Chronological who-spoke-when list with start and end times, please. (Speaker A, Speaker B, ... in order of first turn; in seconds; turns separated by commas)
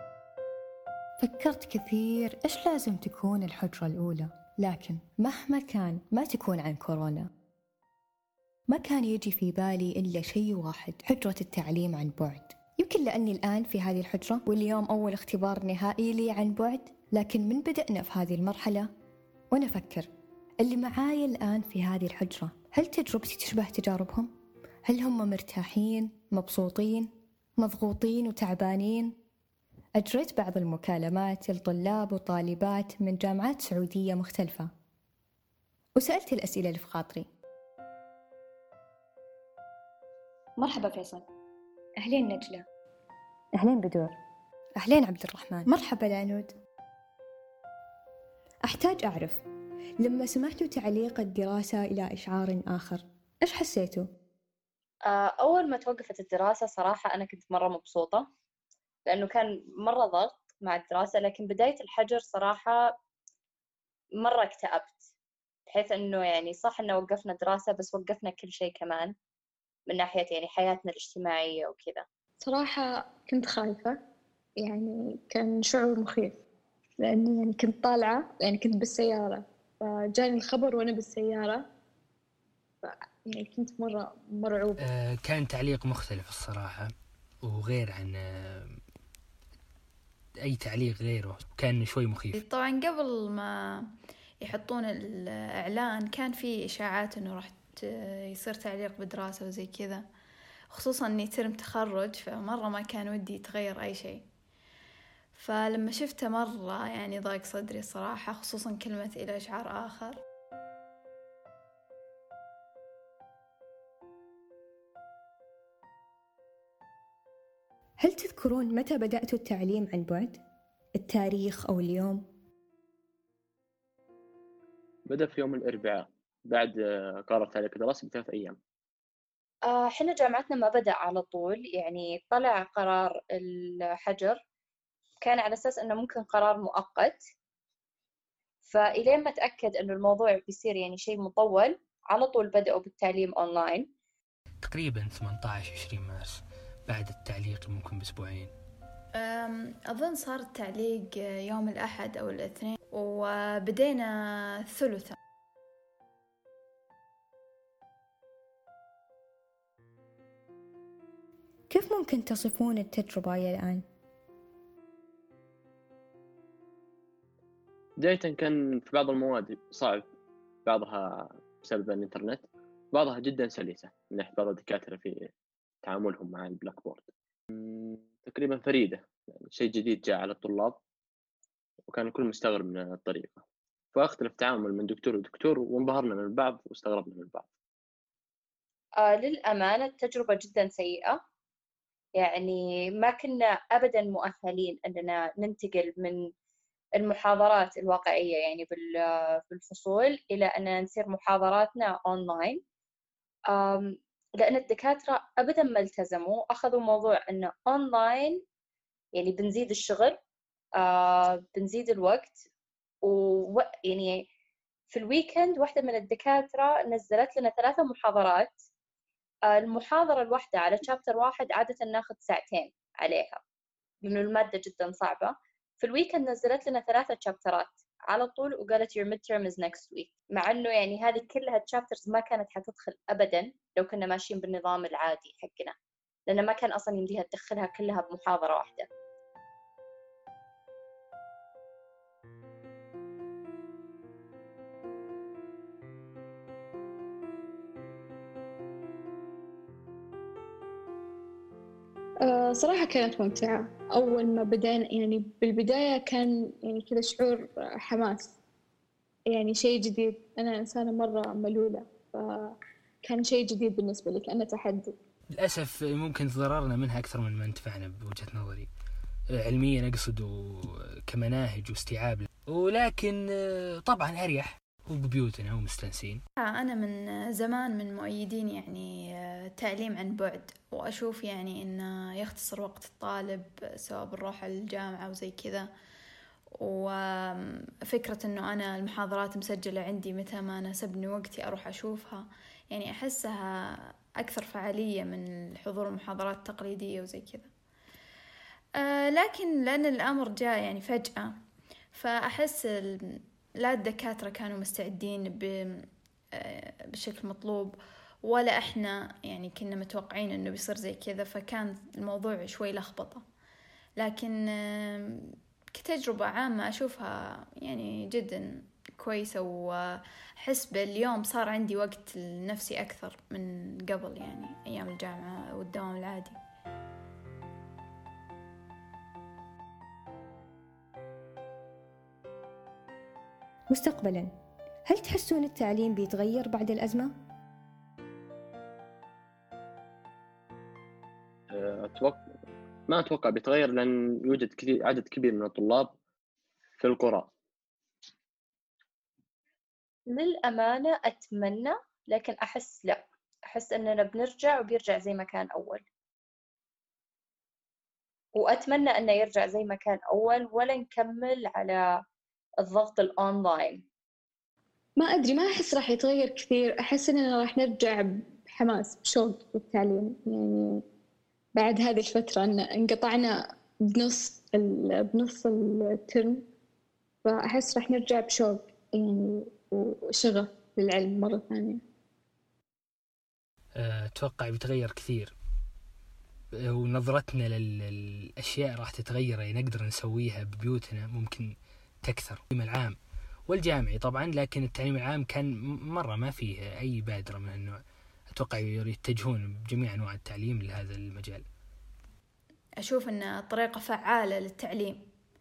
Speaker A: 1.2-7.3, Speaker A: 8.7-18.9, Speaker A: 19.5-20.1, Speaker A: 20.6-24.3, Speaker A: 24.9-29.1, Speaker A: 30.0-34.7, Speaker A: 36.0-37.3, Speaker B: 40.6-41.2, Speaker A: 42.0-42.6, Speaker A: 43.6-44.1, Speaker A: 44.8-46.5, Speaker A: 48.6-49.4, Speaker A: 50.0-54.0, Speaker B: 55.1-58.2, Speaker B: 59.0-62.8, Speaker B: 64.2-65.0, Speaker B: 65.7-69.1, Speaker B: 69.9-72.0, Speaker C: 72.4-74.0, Speaker C: 74.6-76.4, Speaker C: 77.0-81.7, Speaker C: 82.8-84.8, Speaker D: 84.8-86.9, Speaker D: 87.4-88.8, Speaker D: 90.4-92.3, Speaker E: 92.3-93.9, Speaker E: 94.4-100.0, Speaker E: 100.7-104.2, Speaker E: 105.3-110.2, Speaker A: 118.0-120.4, Speaker A: 121.0-122.2, Speaker F: 125.1-128.6, Speaker B: 129.7-134.4, Speaker B: 135.2-137.2, Speaker B: 138.7-143.9, Speaker D: 144.6-148.5, Speaker E: 149.2-155.1, Speaker A: 161.7-163.8, Speaker F: 168.0-170.1, Speaker F: 170.7-175.3, Speaker F: 175.8-180.8, Speaker F: 181.9-183.4, Speaker F: 183.9-187.4, Speaker B: 189.0-191.2, Speaker B: 192.2-196.2, Speaker B: 197.0-202.6, Speaker B: 203.5-208.4, Speaker B: 209.2-210.2, Speaker B: 210.8-212.4, Speaker B: 213.0-214.3, Speaker B: 214.9-218.6, Speaker B: 219.5-223.4, Speaker B: 224.0-235.7, Speaker B: 236.3-238.9, Speaker C: 252.2-258.3, Speaker C: 259.3-264.9, Speaker D: 265.4-268.7, Speaker D: 269.3-276.2, Speaker E: 276.4-285.7, Speaker E: 286.6-297.5, Speaker E: 298.8-301.3, Speaker E: 301.9-313.2, Speaker E: 314.0-326.4, Speaker A: 333.7-334.3, Speaker A: 334.9-337.1, Speaker F: 341.5-342.2, Speaker F: 342.9-345.9, Speaker F: 346.8-347.3, Speaker B: 350.1-355.8, Speaker B: 358.4-361.8, Speaker B: 362.6-363.8, Speaker C: 365.0-370.8, Speaker C: 371.6-376.4, Speaker C: 377.2-381.8, Speaker D: 383.8-385.3, Speaker D: 386.6-391.5, Speaker D: 392.0-392.9, Speaker D: 393.5-397.8, Speaker D: 398.3-401.4, Speaker E: 402.8-405.0